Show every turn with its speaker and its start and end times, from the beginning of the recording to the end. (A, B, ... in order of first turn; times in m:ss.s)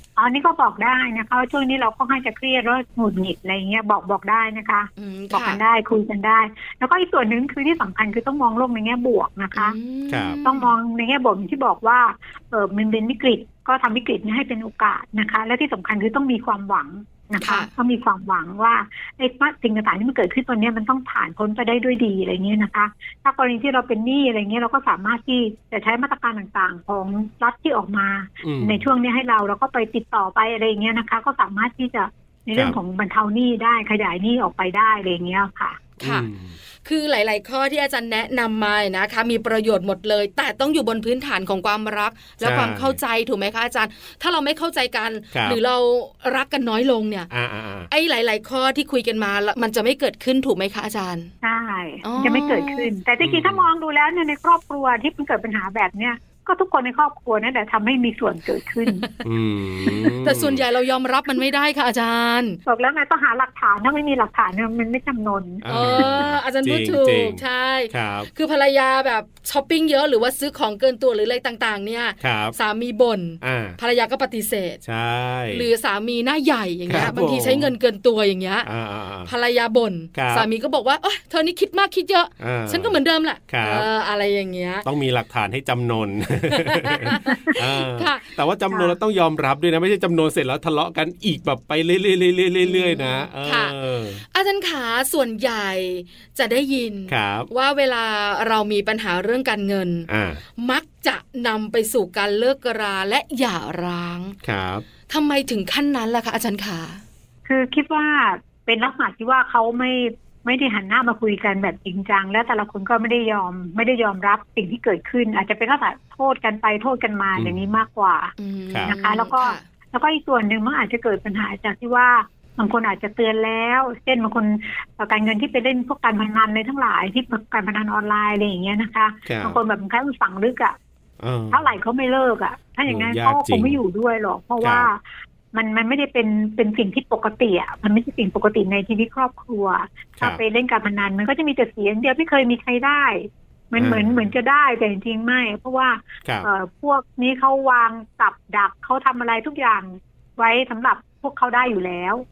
0:00.2-0:09.8 A
0:05.0-0:05.6 B
0:09.5-0:10.7 B
0:10.1-0:10.4 C
0:10.4-0:35.8 A
0:17.4-0:17.7 B
0:28.4-0:28.8 C
0:36.0-0:36.6 C
0:36.0-0:36.3 B
0:36.8-0:47.3 B
0:42.4-0:43.0 C
0:45.3-0:45.6 C
0:47.3-0:47.9 C
0:47.9-0:51.3 B
0:51.4-0:59.0 A
0:52.0-0:52.9 B
0:53.2-0:53.7 C
0:59.2-1:00.6 C
0:59.8-1:02.6 B
1:02.6-1:06.1 A
1:05.6-1:08.3 C
1:05.7-1:14.8 B
1:12.2-1:12.6 C
1:13.4-1:13.8 C
1:14.8-1:15.7 C
1:15.5-1:18.7 B
1:16.9-1:17.7 C
1:18.6-1:19.3 C
1:19.2-1:24.8 B
1:20.1-1:20.5 C
1:22.4-1:23.9 C
1:24.8-1:34.2 C
1:26.5-1:28.3 B
1:27.2-1:27.5 A
1:32.6-1:33.7 B
1:34.2-1:44.4 B
1:37.1-1:37.5 C
1:40.1-1:40.4 C
1:44.4-1:44.8 C
1:45.1-1:47.0 B
1:47.4-1:58.3 A
1:57.4-1:57.7 C
1:58.4-1:59.6 B
1:58.8-2:10.8 A
2:09.2-2:09.6 C
2:11.2-2:11.7 C
2:11.5-2:15.0 A
2:12.9-2:13.8 C
2:14.6-2:14.9 C
2:15.5-2:32.2 A
2:23.8-2:24.3 C